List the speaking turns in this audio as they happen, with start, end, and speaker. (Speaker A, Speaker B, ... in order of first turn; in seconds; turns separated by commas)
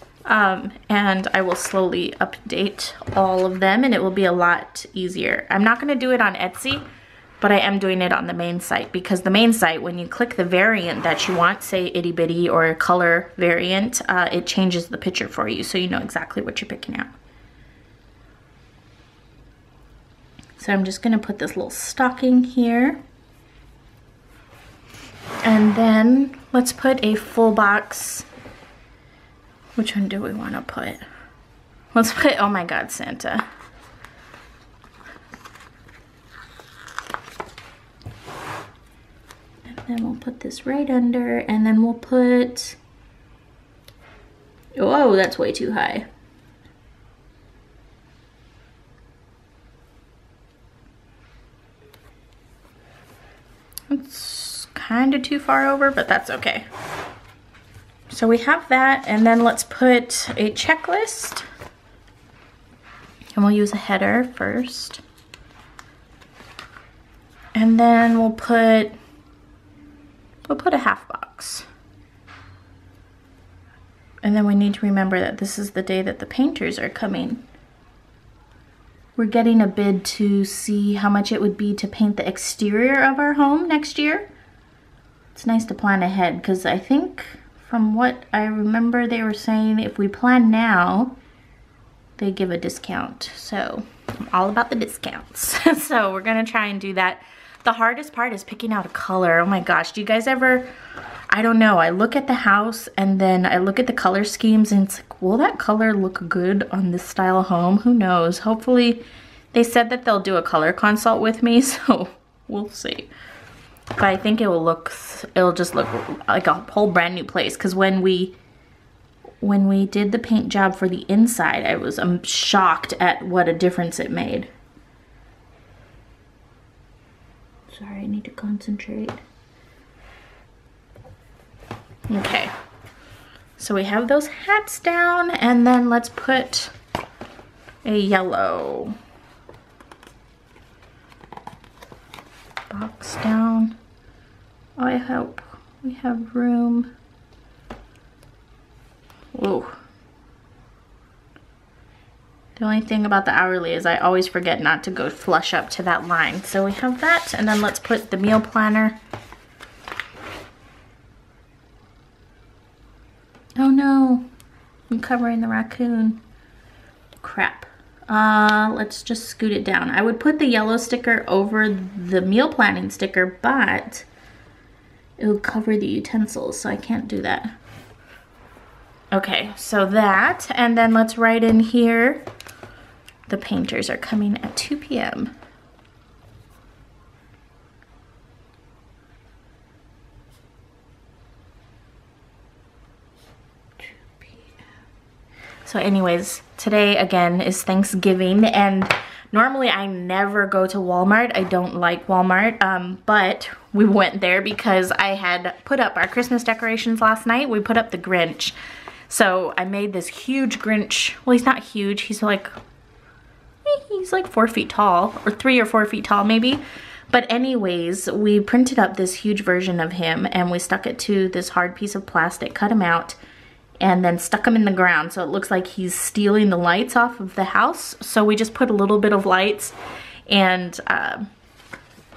Speaker A: 0.3-6.8, Speaker A: 7.4-17.1, Speaker A: 20.6-23.0, Speaker A: 25.4-28.3, Speaker A: 29.8-31.0, Speaker A: 31.9-33.4, Speaker A: 39.6-42.8, Speaker A: 44.8-46.0, Speaker A: 53.9-56.6, Speaker A: 58.1-61.5, Speaker A: 63.4-65.0, Speaker A: 67.5-69.0, Speaker A: 70.5-71.7, Speaker A: 74.2-77.4, Speaker A: 79.2-84.3, Speaker A: 85.3-91.1, Speaker A: 92.2-100.7, Speaker A: 101.3-113.1, Speaker A: 114.0-118.3, Speaker A: 119.4-124.5, Speaker A: 127.7-129.2, Speaker A: 132.1-132.5, Speaker A: 133.6-136.7, Speaker A: 137.8-139.0, Speaker A: 142.7-143.8, Speaker A: 144.8-146.9, Speaker A: 149.3-149.8, Speaker A: 152.6-159.0, Speaker A: 163.6-164.2, Speaker A: 164.9-166.2, Speaker A: 167.2-174.1, Speaker A: 175.2-177.5, Speaker A: 179.1-182.2, Speaker A: 183.3-185.3, Speaker A: 193.9-194.4, Speaker A: 195.6-208.6, Speaker A: 209.1-212.5, Speaker A: 213.6-223.2, Speaker A: 223.8-229.7, Speaker A: 230.3-231.3